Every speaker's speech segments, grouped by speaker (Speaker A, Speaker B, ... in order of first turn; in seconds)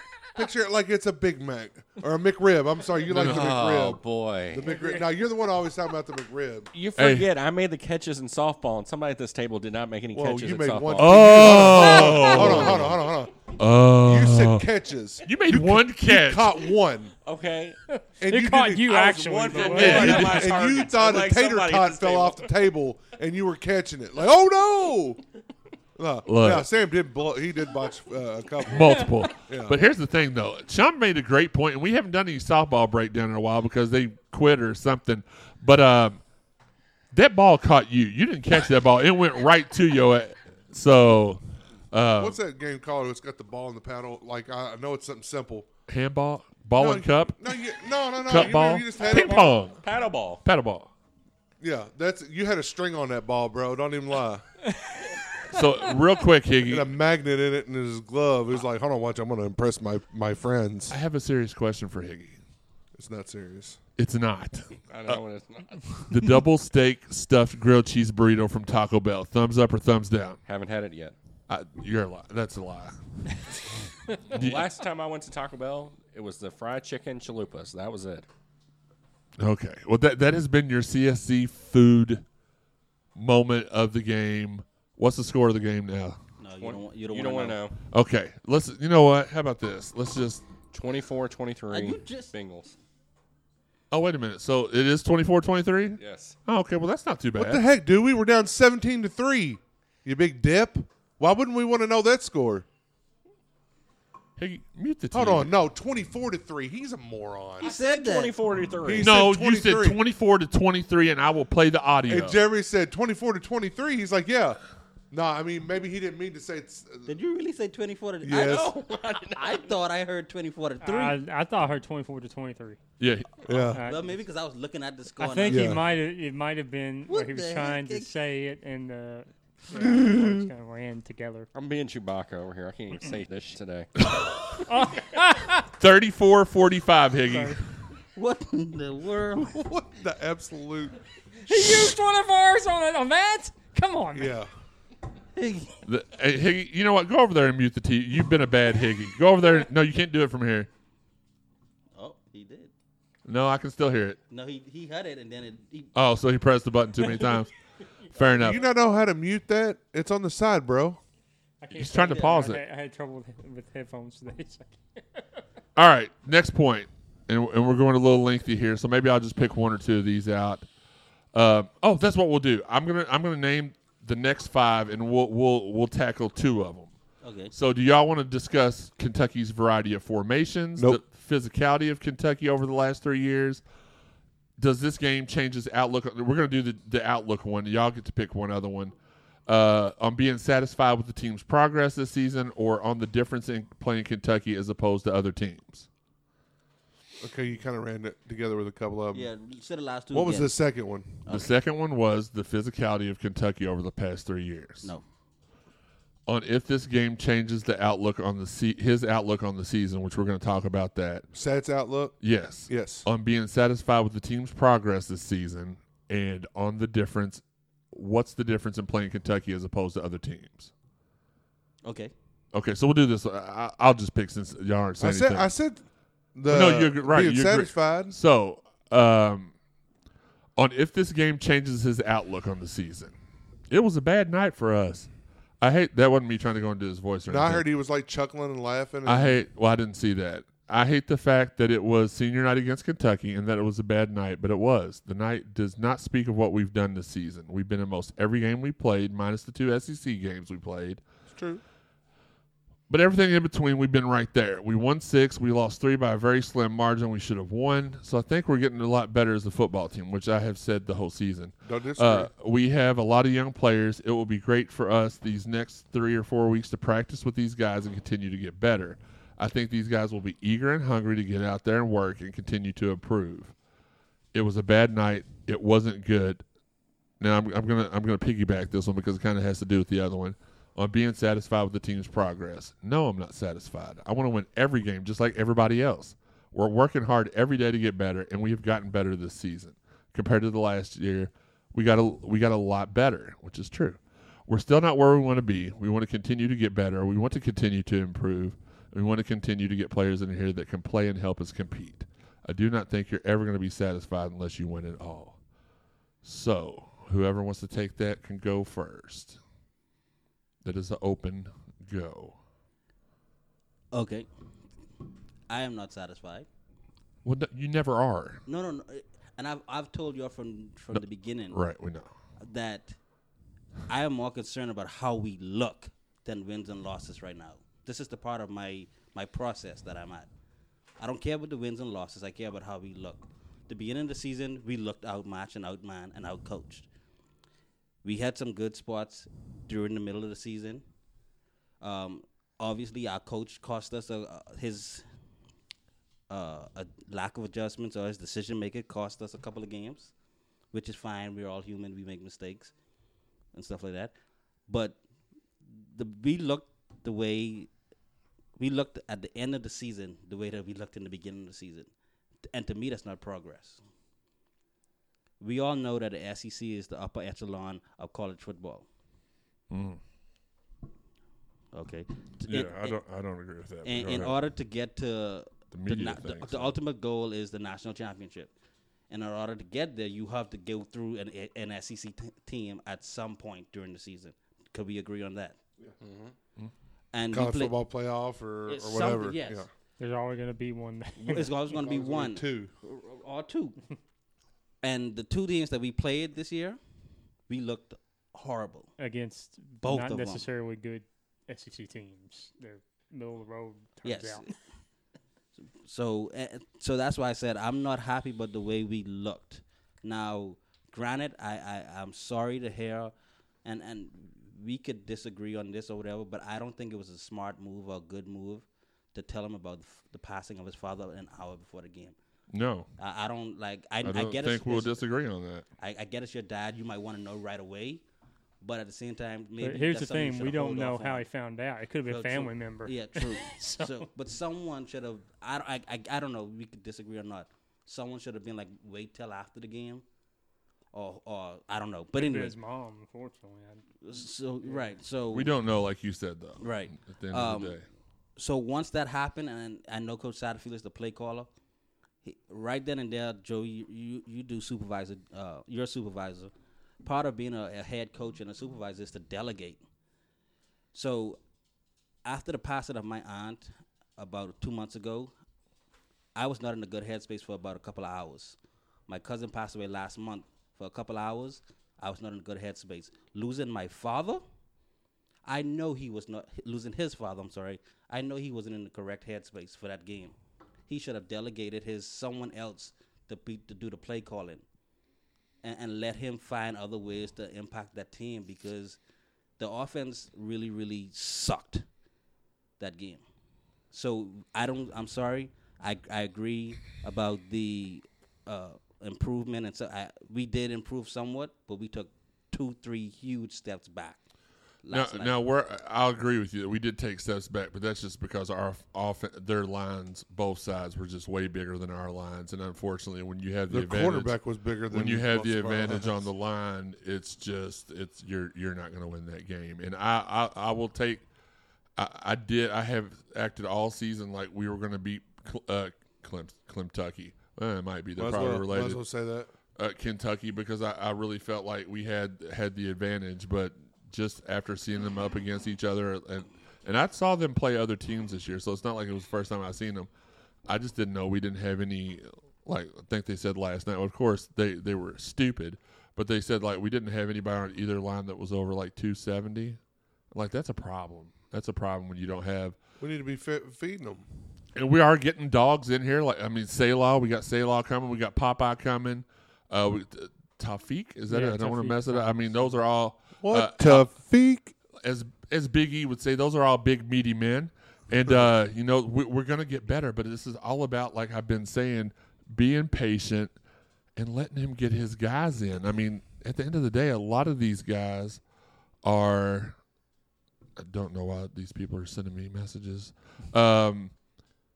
Speaker A: 0.3-6.7, 10.1-17.1, 18.2-25.2, 25.9-29.8, 42.2-45.7, 46.8-49.6, 51.6-54.5, 56.7-61.0, 62.9-63.8, 97.3-102.7, 105.1-107.7, 108.8-110.0, 112.1-114.6, 115.1-117.1, 118.2-118.7, 123.4-123.8, 125.5-125.8, 129.7-130.5, 139.3-141.0, 144.1-144.5, 158.4-161.0, 197.2-199.3, 200.1-201.2, 211.3-212.2, 212.7-213.1, 225.0-225.8, 226.3-228.1, 237.3-239.4, 251.3-251.6, 261.6-262.3, 387.3-389.7, 391.7-392.7, 513.7-516.2, 528.2-529.5, 553.0-554.2, 563.4-564.7
Speaker B: 3.1-3.5, 7.0-7.3, 11.0-13.0, 13.6-14.6, 15.2-16.6, 19.6-20.6, 26.2-26.7, 28.7-36.2, 37.1-42.4, 45.9-47.4, 48.2-49.8, 50.4-50.9, 55.5-56.9, 60.9-62.4, 64.0-65.2, 65.9-70.4, 71.5-73.7, 74.3-74.7, 79.4-82.2, 83.2-86.2, 87.9-90.5, 93.9-97.6, 104.4-105.5, 109.0-112.4, 123.0-123.3, 134.0-134.6, 135.8-137.8, 145.8-150.7, 153.2-154.2, 155.9-157.5, 158.1-158.6, 161.7-162.6, 165.8-170.7, 171.3-176.9, 177.5-183.6, 184.6-188.9, 189.5-195.9, 201.3-204.9, 206.3-211.2, 212.2-220.7, 222.5-225.5, 226.5-229.5, 230.6-233.1, 233.7-235.1, 235.6-237.6, 239.1-251.0, 252.9-273.5, 274.3-276.4, 277.2-305.4, 306.2-309.4, 310.6-312.4, 317.2-318.4, 320.9-322.1, 369.7-370.0, 372.5-374.3, 375.7-376.7, 422.5-422.9, 424.0-425.6, 445.3-447.8, 504.9-514.4, 514.9-521.2, 522.0-529.0, 529.8-540.1, 540.7-549.8, 550.3-552.8, 554.7-564.1, 565.0-573.5, 574.1-578.4, 579.0-579.8, 580.8-584.1
Speaker C: 3.1-4.6, 6.7-12.9, 17.2-17.8, 18.9-22.5, 48.9-50.4, 64.9-66.1, 70.5-71.2, 74.3-78.2, 86.6-87.8, 90.7-92.8, 96.0-96.3, 107.6-109.1, 118.8-119.6, 131.5-133.9, 386.0-386.3
Speaker D: 4.6-5.1, 17.9-20.4, 120.8-122.8, 123.7-124.1, 125.2-131.5, 134.7-135.7, 137.3-137.6, 141.5-144.3, 161.6-165.4, 390.0-391.5, 399.0-404.5, 429.6-434.1, 442.1-443.8, 561.3-562.8
Speaker E: 86.4-87.6, 91.7-92.3, 107.6-108.3, 117.0-121.2, 123.8-125.7, 127.1-128.1, 138.1-139.6, 145.3-145.7, 151.9-152.7, 154.3-155.9, 177.2-177.5, 199.1-200.5, 201.2-201.5, 221.8-222.1, 313.9-314.3, 315.5-316.5, 318.4-321.6, 322.4-323.0, 323.9-330.3, 331.0-336.9, 338.0-340.8, 341.8-345.0, 346.3-350.1, 350.7-352.7, 353.5-354.1, 354.7-355.0, 355.7-357.7, 358.6-361.9, 362.5-363.8, 365.4-368.9, 371.7-373.0, 373.8-378.5, 379.1-385.6, 387.1-387.7, 388.7-389.6, 391.2-393.8, 394.8-396.8, 397.5-398.9, 399.8-400.4, 404.0-404.5, 405.6-413.1, 413.6-422.1, 423.0-425.0, 425.8-428.0, 428.6-431.2, 432.0-440.0, 440.9-442.6, 444.0-445.5, 446.6-447.8, 448.4-451.5, 452.2-456.5, 457.0-459.8, 460.9-461.4, 462.2-465.3, 466.3-468.6, 469.1-474.4, 475.4-480.3, 480.9-484.6, 485.6-489.0, 489.6-491.8, 492.8-493.2, 493.9-504.2, 504.8-505.3